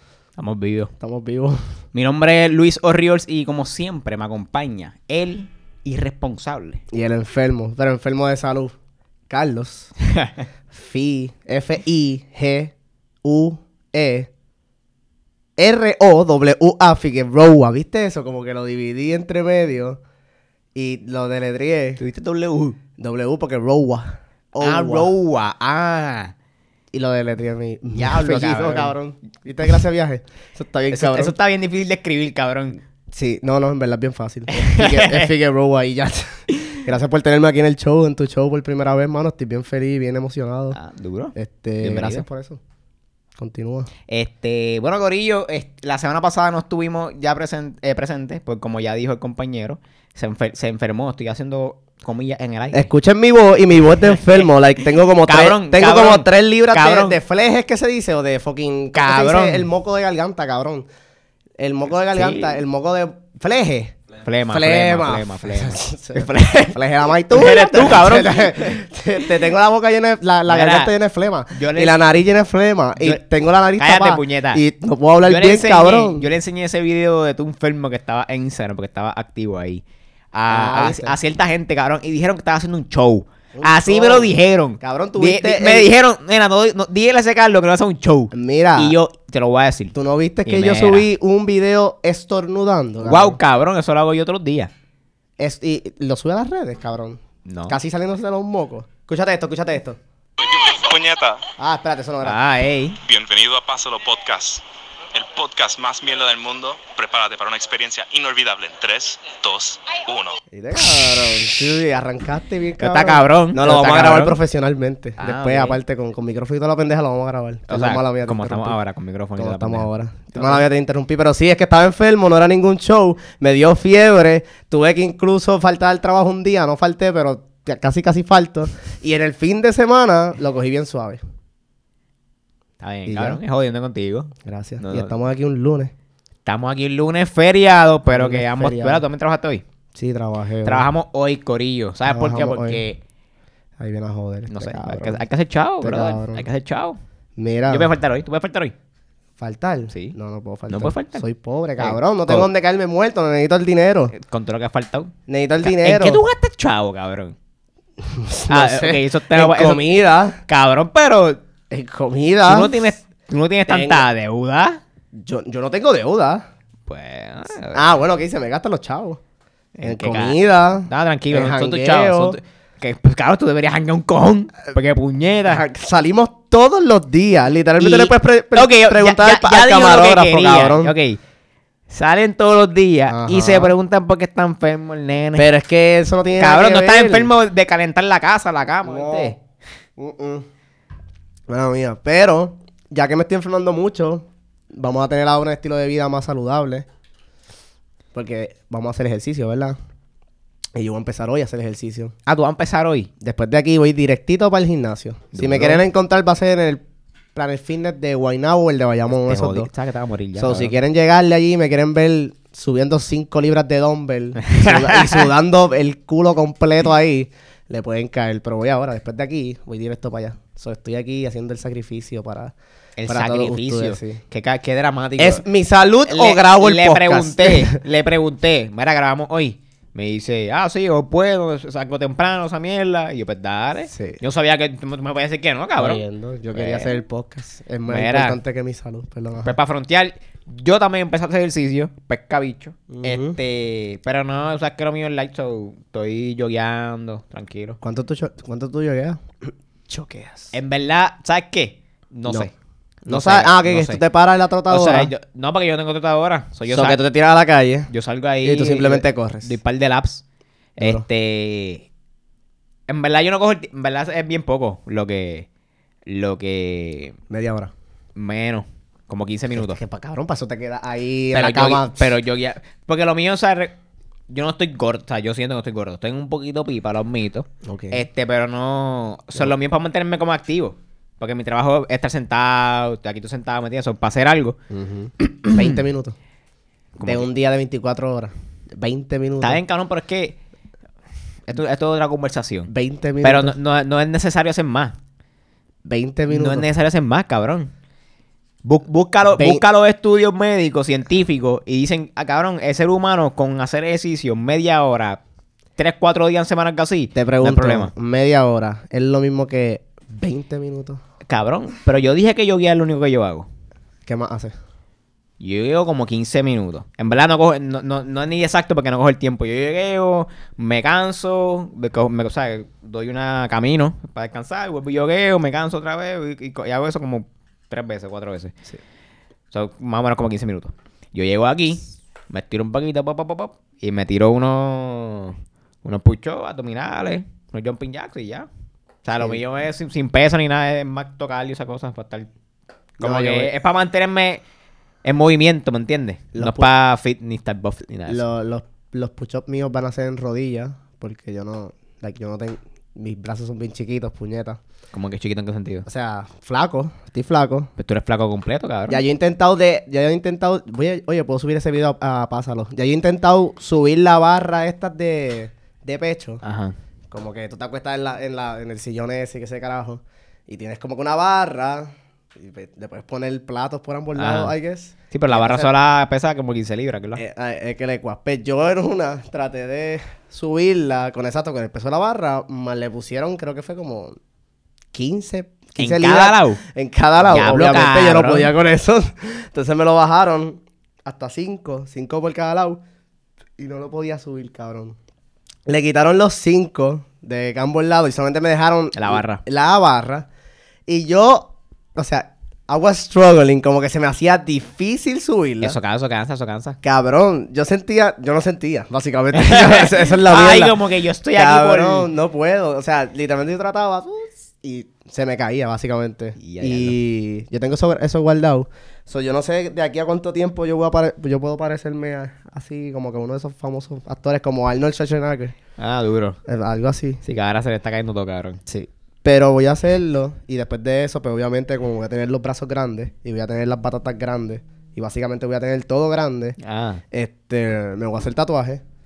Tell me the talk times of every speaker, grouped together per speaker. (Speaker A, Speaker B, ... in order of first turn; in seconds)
Speaker A: 0.4-0.9, 1.9-6.8, 10.1-10.4, 22.0-22.8, 24.6-26.3, 27.9-29.0, 30.9-32.8, 34.5-35.3, 40.7-42.2, 44.1-52.9, 54.0-54.5, 55.2-57.2, 58.9-59.7, 62.1-62.6, 64.2-66.8, 67.3-68.8, 70.5-70.9, 71.5-72.2, 73.8-74.6, 75.2-89.9, 90.4-91.1, 93.0-94.7, 97.4-97.8, 102.2-103.0, 112.8-114.4, 115.2-115.8, 117.7-120.6, 132.8-135.1, 136.4-139.6, 140.6-143.0, 144.5-147.0, 147.7-148.7, 150.7-151.2, 151.8-152.5, 154.1-157.3, 158.5-159.8, 160.4-161.4, 162.4-164.8, 166.9-167.9, 169.8-175.6, 177.8-181.2, 181.9-185.5, 186.4-189.4, 202.2-203.1, 205.3-205.8, 209.2-210.8, 214.4-215.3, 223.0-225.4, 226.1-236.0, 236.5-236.9, 237.9-238.4, 239.4-247.8, 250.5-252.5, 253.0-254.0, 254.7-257.0, 257.9-260.2, 260.8-261.9, 262.9-265.5, 266.1-267.2, 268.1-269.8, 271.3-273.7, 274.3-284.6, 285.2-285.8, 286.9-287.2, 289.4-290.4, 291.5-292.7, 293.2-294.9, 296.3-297.7, 298.6-305.2, 305.8-307.9, 311.3-313.5, 315.4-328.6, 329.5-338.5, 339.0-342.3, 343.0-344.4, 345.0-348.2, 354.9-355.9, 357.8-359.0, 366.4-366.7, 374.1-374.5, 375.1-377.2, 385.8-386.6, 387.2-388.5, 398.9-399.4, 405.6-406.8, 409.3-412.1, 416.4-416.9, 425.8-426.4, 427.2-428.8, 436.6-437.0
Speaker B: 1.0-1.6, 6.9-8.7, 9.3-9.9, 10.7-12.7, 13.2-14.3, 15.6-20.0, 20.7-22.0, 23.0-25.1, 26.9-31.3, 33.1-40.8, 41.4-42.6, 43.4-43.9, 52.7-60.9, 61.6-63.9, 64.5-76.2, 80.5-81.2, 83.5-85.9, 88.3-89.0, 89.9-93.4, 95.4-100.0, 101.6-102.4, 110.5-118.8, 119.4-131.2, 133.1-133.4, 134.4-135.9, 138.1-139.0, 139.9-140.9, 142.1-142.8, 143.8-145.2, 145.8-146.5, 147.4-147.9, 149.4-154.1, 155.3-156.2, 158.0-160.4, 161.7-162.9, 163.7-164.1, 165.1-166.5, 167.7-169.2, 169.8-172.4, 175.5-180.9, 183.1-183.7, 185.4-187.3, 188.8-189.3, 190.0-190.4, 191.5-196.9, 198.1-199.8, 200.8-202.1, 203.2-206.8, 207.3-209.7, 210.4-222.5, 223.1-224.2, 225.2-227.8, 233.9-234.2, 235.8-239.5, 242.9-243.4, 247.8-250.5, 253.1-255.1, 256.7-257.9, 258.4-259.6, 260.8-261.0, 267.3-267.7, 269.5-272.0, 277.6-278.0, 284.7-286.1, 287.0-289.6, 292.7-293.6, 295.8-296.7, 299.3-299.6, 307.1-311.0, 314.1-314.5, 343.0-343.5, 346.3-346.7, 348.1-354.6, 355.9-357.7, 358.9-366.4, 367.1-375.7, 377.1-384.2, 384.9-392.8, 393.6-395.0, 395.7-400.3, 400.9-405.8, 406.8-410.8, 411.3-425.5, 426.4-427.2, 428.7-436.6, 437.1-438.8
Speaker C: 100.4-101.4, 103.0-104.6, 105.1-110.4